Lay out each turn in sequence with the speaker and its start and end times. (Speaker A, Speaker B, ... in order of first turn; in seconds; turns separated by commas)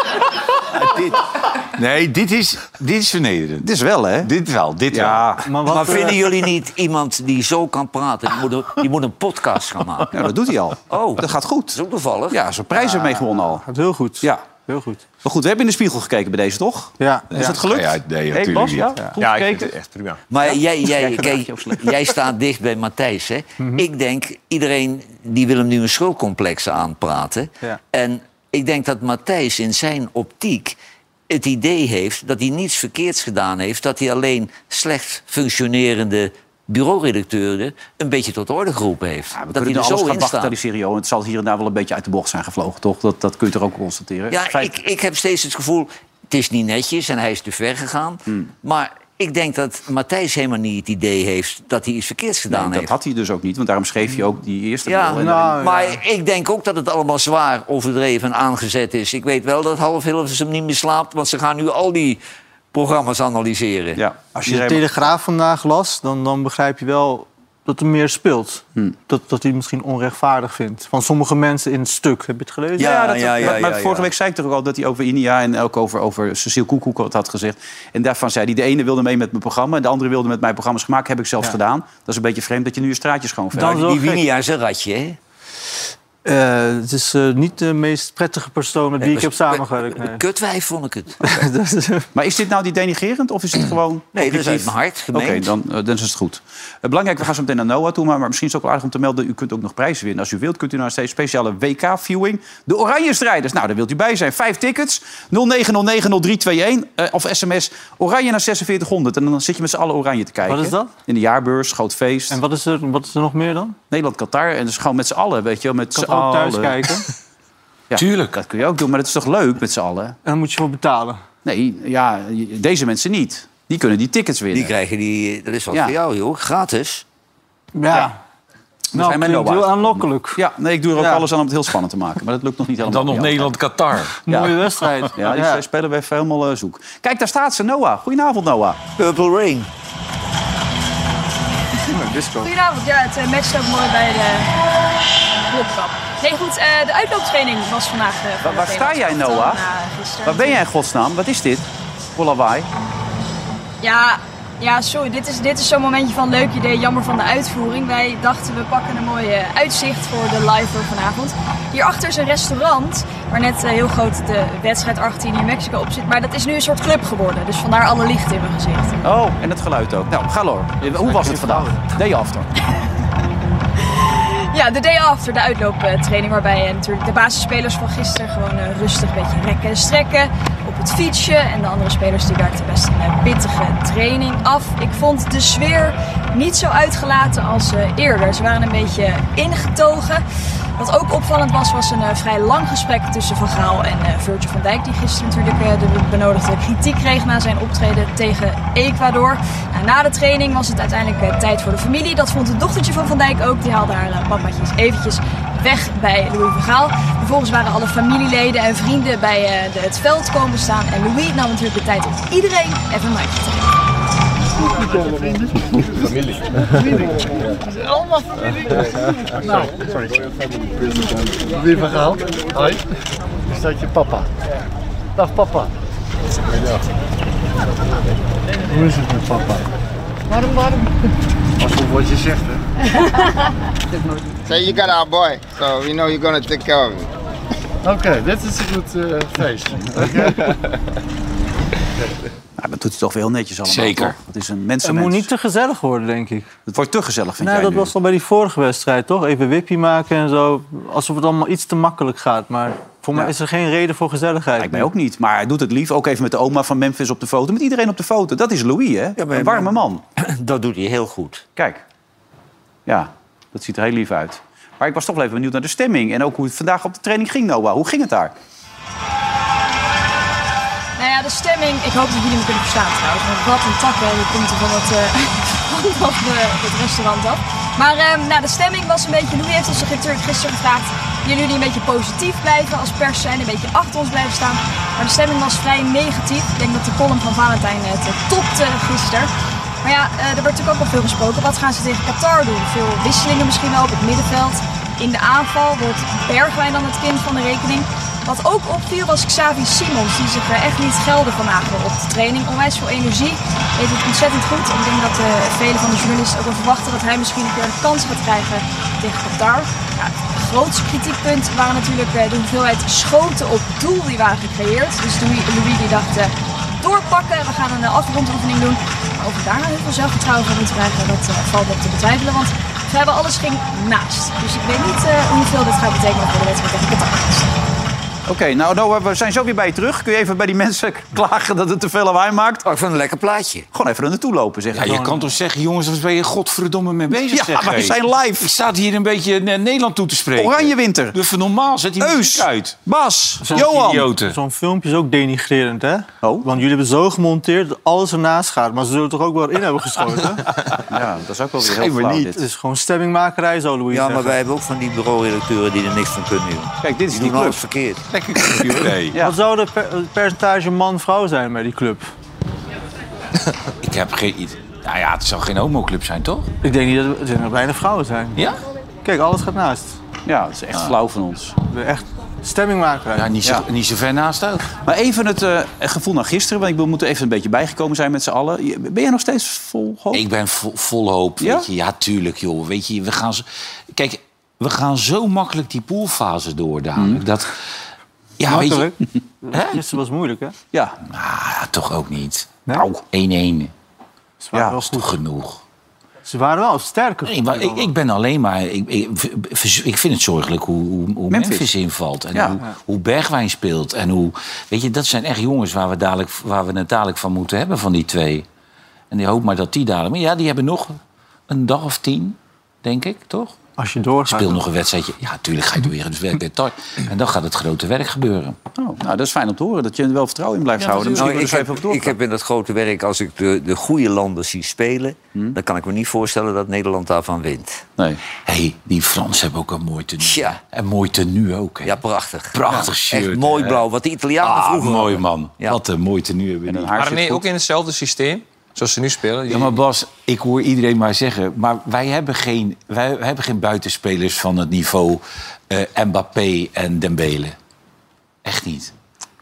Speaker A: 0.5-3.7, Speaker B: 3.6-4.3, Speaker A: 4.2-5.4, Speaker B: 4.9-5.5, Speaker C: 5.5-6.2, Speaker D: 5.7-10.3, Speaker B: 10.1-11.8, Speaker D: 10.9-12.4, Speaker B: 12.3-13.6, Speaker C: 12.8-15.0, Speaker B: 15.2-19.7, Speaker C: 17.0-17.6, Speaker A: 17.4-19.0, Speaker E: 19.2-20.2, Speaker D: 20.3-30.8, Speaker B: 20.4-22.0, Speaker C: 23.6-23.9, Speaker D: 31.3-40.5, Speaker B: 39.3-44.7, Speaker D: 44.3-52.9, Speaker B: 52.5-55.7, Speaker D: 54.9-62.2, Speaker C: 55.1-56.0, Speaker D: 62.7-64.0, Speaker B: 64.0-64.9, Speaker C: 64.4-72.9, Speaker B: 72.8-83.9, Speaker D: 72.8-74.1, Speaker C: 83.5-84.2, Speaker D: 83.8-85.2, Speaker C: 86.2-90.2, Speaker D: 89.0-91.3, Speaker C: 91.2-92.1, Speaker B: 92.1-112.4, Speaker D: 94.2-95.5, Speaker C: 110.5-110.9, Speaker C: 112.3-113.8, Speaker B: 113.9-116.9, Speaker C: 116.0-117.1, Speaker B: 117.9-120.2, Speaker A: 117.9-118.4, Speaker C: 120.2-121.2, Speaker B: 121.5-124.7, Speaker D: 124.5-127.0, Speaker C: 127.8-128.2, Speaker B: 128.9-133.5, Speaker C: 128.9-130.4, Speaker C: 131.0-131.2, Speaker A: 132.9-134.2, Speaker C: 134.3-135.6, Speaker B: 134.3-134.6, Speaker B: 135.2-138.8, Speaker D: 139.0-139.7, Speaker C: 141.9-142.5, Speaker F: 142.4-144.5, Speaker F: 145.5-150.6, Speaker B: 148.4-149.6, Speaker B: 150.2-152.7, Speaker F: 153.8-169.0, Speaker B: 169.0-172.5, Speaker C: 170.8-171.8, Speaker F: 173.9-190.2, Speaker F: 190.8-213.7, Speaker G: 214.8-217.1, Speaker G: 217.7-218.8, Speaker G: 219.4-220.1, Speaker G: 221.4-222.8, Speaker G: 223.5-224.3, Speaker G: 225.2-225.7, Speaker G: 228.7-229.6, Speaker G: 231.6-232.6, Speaker H: 234.5-237.1, Speaker G: 237.8-240.4, Speaker B: 242.6-245.3, Speaker A: 243.7-244.2, Speaker C: 244.8-246.5, Speaker B: 246.7-247.9, Speaker C: 247.4-254.9, Speaker B: 254.6-260.0, Speaker D: 259.2-261.4, Speaker B: 261.6-261.8, Speaker B: 262.9-268.4, Speaker F: 271.0-289.3, Speaker F: 289.8-327.6, Speaker B: 328.3-332.7, Speaker D: 332.6-333.7, Speaker B: 333.7-335.0, Speaker A: 334.7-342.8, Speaker C: 334.9-335.2, Speaker B: 337.3-338.5, Speaker B: 340.4-341.2, Speaker B: 342.0-344.1, Speaker C: 343.4-350.5, Speaker A: 343.5-344.4, Speaker B: 346.2-346.5, Speaker B: 350.9-352.4, Speaker A: 351.6-352.4, Speaker C: 352.4-354.4, Speaker D: 353.9-358.0, Speaker B: 356.8-357.6, Speaker A: 358.1-359.2, Speaker B: 358.5-359.4, Speaker C: 359.2-362.1, Speaker A: 363.8-366.5, Speaker C: 366.6-368.5, Speaker C: 369.0-370.0, Speaker B: 370.3-371.6, Speaker C: 371.7-373.3, Speaker A: 373.1-374.8, Speaker B: 374.9-380.2, Speaker A: 380.1-387.6, Speaker B: 381.4-381.7, Speaker B: 387.0-387.2, Speaker A: 388.4-389.0, Speaker C: 388.5-390.6, Speaker A: 389.5-389.8, Speaker B: 390.7-391.0, Speaker A: 391.1-393.7, Speaker B: 392.7-393.0, Speaker C: 394.4-395.1, Speaker A: 394.8-395.6, Speaker C: 396.2-397.9, Speaker A: 397.2-408.5, Speaker B: 401.3-401.7, Speaker B: 402.3-402.6, Speaker A: 409.1-413.6, Speaker C: 413.8-414.6, Speaker A: 414.3-418.6, Speaker B: 418.8-422.1, Speaker D: 421.1-427.8, Speaker A: 428.4-432.0, Speaker D: 430.2-430.6, Speaker D: 431.9-435.8, Speaker A: 432.5-433.8, Speaker A: 434.4-436.9, Speaker B: 436.7-437.5, Speaker E: 437.0-439.7, Speaker A: 439.5-447.6, Speaker A: 448.4-448.9